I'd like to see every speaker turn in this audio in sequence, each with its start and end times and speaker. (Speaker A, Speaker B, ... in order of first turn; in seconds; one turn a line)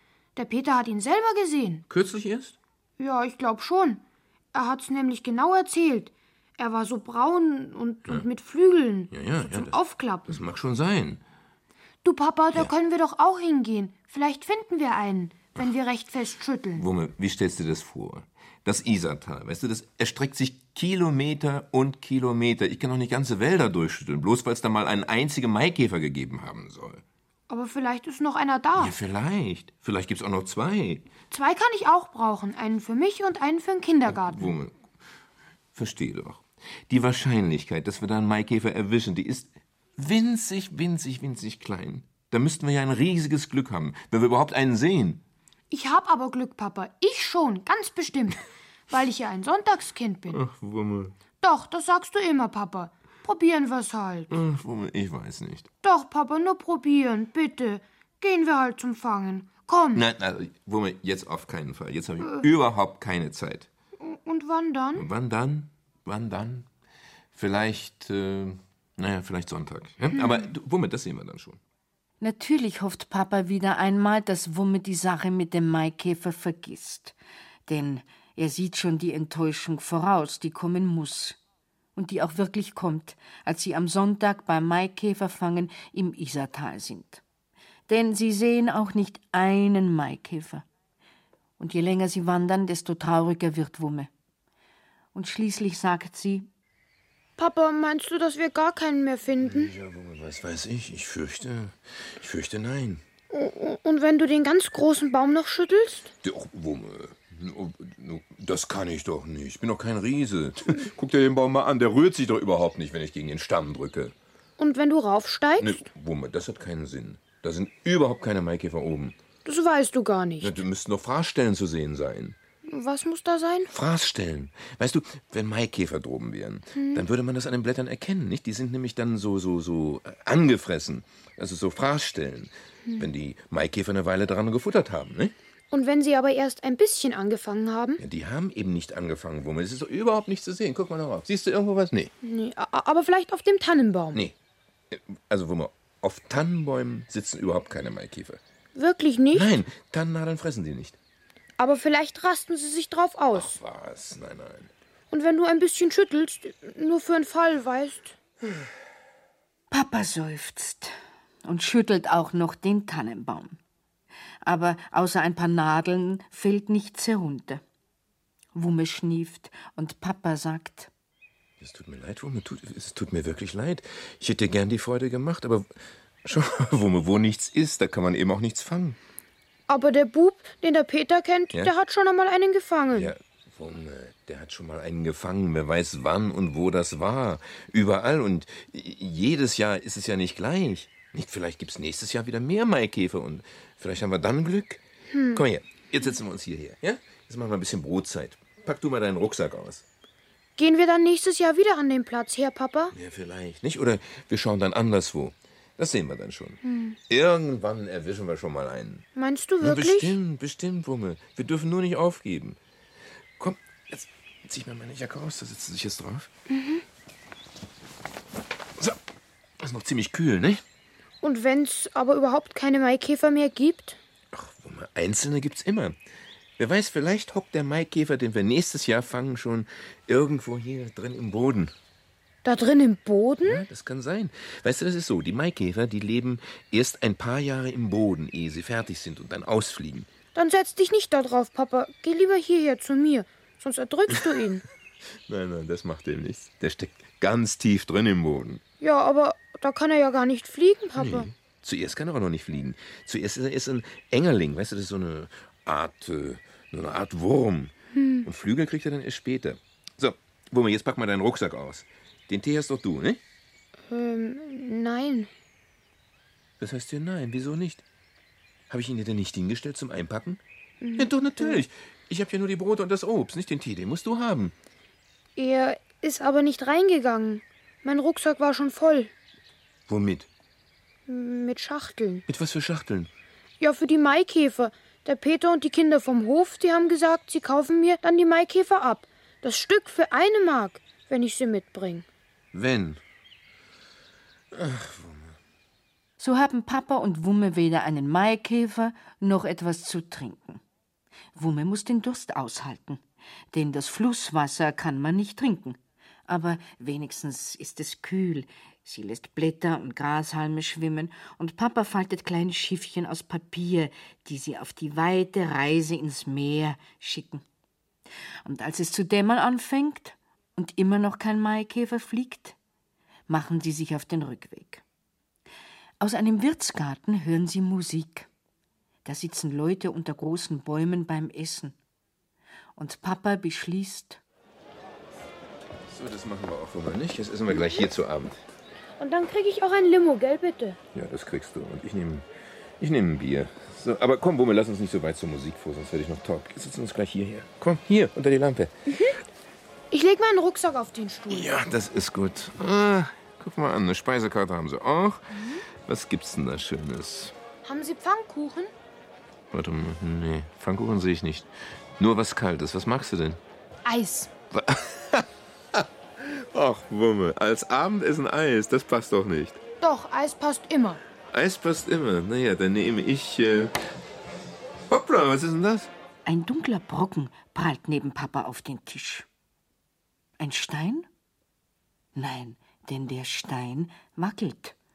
Speaker A: 0.3-1.8
Speaker B: 1.9-2.6
Speaker A: 3.0-10.4
Speaker B: 9.1-9.8
Speaker B: 10.3-11.2
Speaker A: 12.0-16.9
Speaker B: 16.8-27.0
Speaker A: 27.5-29.0
Speaker B: 28.8-31.1
Speaker A: 31.3-34.5
Speaker B: 34.1-34.7
Speaker B: 35.7-45.2
Speaker A: 45.7-50.4
Speaker B: 50.3-51.1
Speaker A: 51.4-54.3
Speaker B: 54.3-55.7
Speaker A: 55.8-60.0
Speaker B: 59.9-63.7
Speaker A: 62.2-62.5
Speaker A: 64.0-65.1
Speaker B: 65.0-66.7
Speaker B: 67.3-71.6
Speaker C: 72.2-77.1
Speaker C: 77.7-81.4
Speaker C: 82.0-87.2
Speaker C: 87.9-90.6
Speaker C: 91.6-94.1
Speaker C: 95.1-96.5
Speaker A: 97.4-99.7
Speaker B: 99.4-103.0
Speaker A: 103.3-106.1
Speaker B: 106.2-114.1
Speaker A: 114.6-115.8
Speaker B: 115.6-119.2
Speaker A: 119.4-120.5
Speaker B: 120.4-122.4
Speaker A: 122.6-123.7
Speaker B: 123.7-135.3
Speaker A: 126.8-127.0
Speaker A: 135.7-138.0
Speaker B: 138.0-142.1
Speaker A: 142.2-144.2
Speaker B: 144.9-148.4
Speaker A: 148.7-149.6
Speaker B: 149.3-151.0
Speaker A: 151.6-153.5
Speaker B: 153.3-154.7
Speaker A: 155.1-158.2
Speaker C: 159.7-160.9
Speaker C: 161.4-163.6
Speaker C: 164.4-167.6
Speaker C: 168.5-170.9
Speaker B: 171.6-175.7
Speaker B: 176.2-179.0
Speaker A: 179.7-183.1
Speaker B: 182.9-194.8
Speaker A: 195.1-195.4
Speaker B: 195.3-199.8
Speaker A: 200.6-202.9
Speaker B: 202.9-209.0
Speaker A: 206.6-207.0
Speaker A: 209.1-210.2
Speaker B: 209.6-212.6
Speaker B: 213.4-216.3
Speaker A: 216.5-216.8
Speaker B: 219.6-220.6
Speaker A: 221.2-224.0
Speaker B: 224.3-225.9
Speaker B: 226.6-231.7
Speaker A: 232.4-233.6
Speaker B: 233.4-240.1
Speaker A: 240.3-244.6
Speaker B: 245.3-248.6
Speaker A: 248.8-251.3
Speaker B: 251.0-257.7
Speaker A: 257.9-258.3
Speaker B: 258.2-263.2
Speaker A: 263.9-265.3
Speaker B: 266.6-267.8
Speaker B: 268.7-270.4
Speaker A: 270.8-271.6
Speaker B: 270.9-274.5
Speaker A: 275.4-279.1
Speaker B: 279.9-280.3
Speaker A: 281.1-282.2
Speaker B: 282.3-283.1
Speaker A: 283.6-292.1
Speaker B: 292.5-293.0
Speaker B: 294.5-295.4
Speaker C: 296.2-300.6
Speaker C: 301.4-303.0
Speaker C: 303.5-317.4
Speaker C: 318.4-322.6
Speaker C: 323.3-324.8
Speaker C: 326.0-328.3
Speaker C: 329.0-331.7
Speaker C: 332.8-334.2
Speaker B: 335.9-338.4
Speaker A: 337.5-337.9
Speaker A: 339.0-340.8
Speaker B: 340.9-342.3
Speaker B: 342.8-348.7
Speaker A: 349.9-351.5
Speaker B: 351.3-355.3
Speaker A: 355.3-355.6
Speaker B: 355.8-357.3
Speaker A: 357.6-358.7
Speaker B: 359.5-363.4
Speaker A: 363.8-364.3
Speaker B: 364.5-369.6
Speaker A: 369.8-371.0
Speaker B: 371.3-373.7
Speaker B: 374.9-375.9
Speaker C: 376.2-379.2
Speaker C: 380.4-381.1
Speaker C: 382.1-384.7